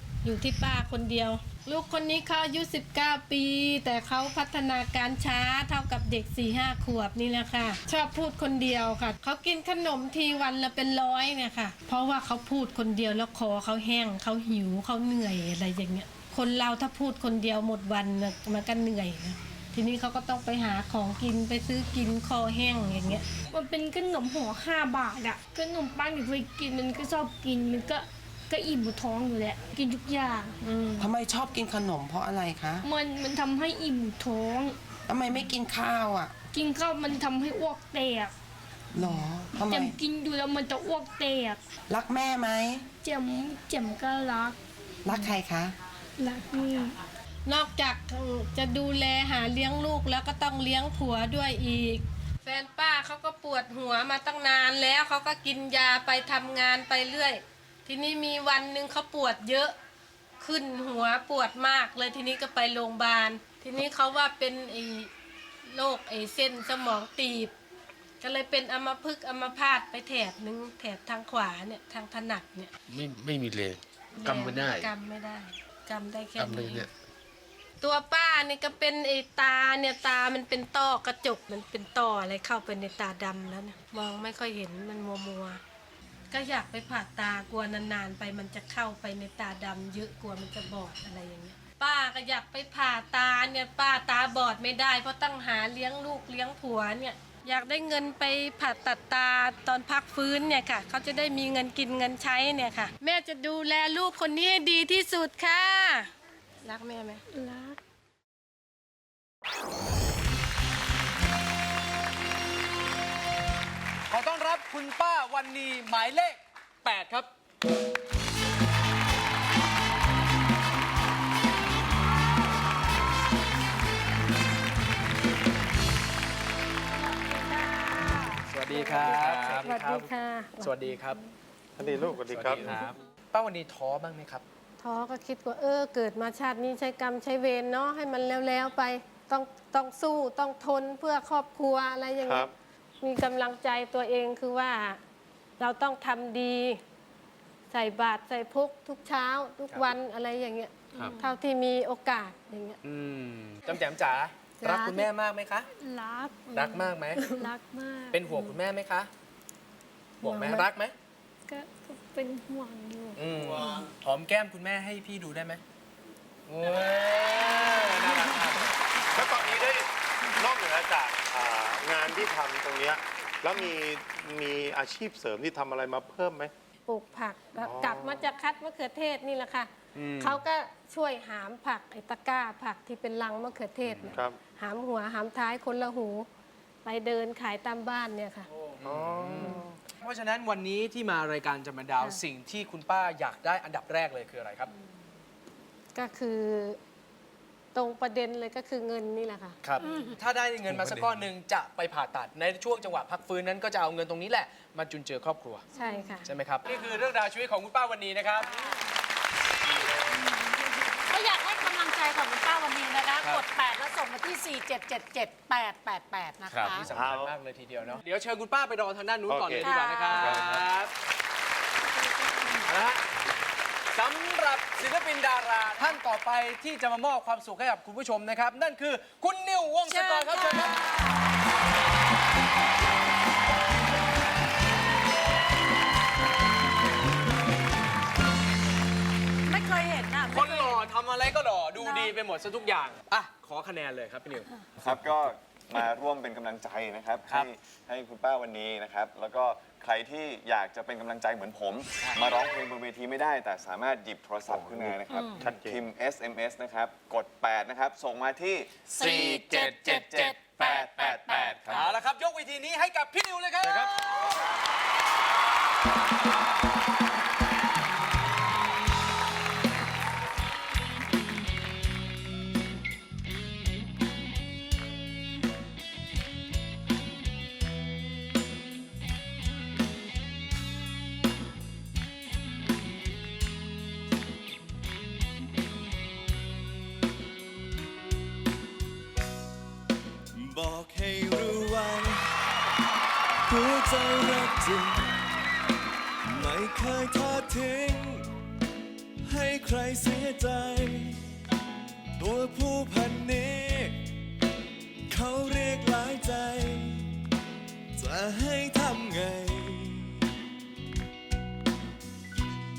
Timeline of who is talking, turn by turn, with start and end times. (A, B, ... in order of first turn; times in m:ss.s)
0:00.2-0:23.2 A
0:23.5-0:30.6 B
0:30.7-0:32.8 C
0:32.8-0:34.8 B
0:35.1-0:36.3 C
0:36.5-0:38.3 B
0:38.9-0:40.0 C
0:39.1-0:41.6 B
0:41.9-0:42.8 C
0:43.0-0:44.6 B
0:45.0-0:45.8 C
0:45.1-0:45.4 B
0:46.2-0:47.0 B
0:47.4-0:59.7 A
1:00.4-1:05.1 A
1:05.7-1:07.5 A
1:08.2-1:12.7 A
1:12.9-1:14.9 D
1:14.2-1:16.9 A
1:16.4-1:16.9 D
1:17.8-1:25.6 A
1:26.3-1:46.1 A
1:46.6-1:47.2 A
1:47.3-1:47.8 B
1:54.1-1:57.3 E
2:07.2-2:10.7 A
2:08.5-2:10.1 E
2:10.6-2:11.2 E
2:11.8-2:12.8 F
2:12.3-2:14.4 E
2:14.8-2:22.5 A
2:22.2-2:22.5 F
2:23.0-2:25.0 A
2:25.6-2:26.8 A
2:27.7-2:32.8 A
2:32.8-2:35.7 E
2:34.6-2:35.0 A
2:35.8-2:38.3 B
2:36.5-2:37.2 E
2:38.1-2:39.1 E
2:40.2-2:40.9 E
2:40.2-2:40.6 A
2:41.5-2:43.9 B
2:43.2-2:45.6 E
2:46.5-2:49.6 E
2:49.1-2:49.9 F
2:50.4-2:56.5 F
2:56.8-3:06.3 A
2:57.6-2:58.1 F
3:00.0-3:00.4 E
3:04.1-3:04.4 F
3:06.8-3:08.5 A
3:08.8-3:14.7 E
3:08.8-3:09.6 F
3:15.9-3:16.8 A
3:17.7-3:19.6 A
3:19.6-3:25.6 E
3:25.7-3:26.2 A
3:26.2-3:28.6 E
3:31.1-3:36.9 G
3:33.2-3:33.5 E
3:36.6-3:40.9 E
3:36.9-3:37.3 F
3:39.3-3:40.6 F
3:39.6-3:40.2 G
3:42.6-3:43.0 E
3:43.9-3:50.9 E
3:49.9-3:50.9 G
3:59.5-4:00.8 G
4:00.3-4:04.5 E
4:01.8-4:02.1 G
4:04.8-4:21.9 H
4:14.5-4:15.8 F
4:15.1-4:15.5 G
4:18.9-4:21.9 G
4:21.7-4:24.1 E
4:50.3-4:52.3 I
4:53.5-4:55.2 I
4:56.2-4:58.3 I
4:59.2-5:01.2 I
5:02.2-5:04.0 I
5:05.1-5:07.1 I
5:07.9-5:10.3 I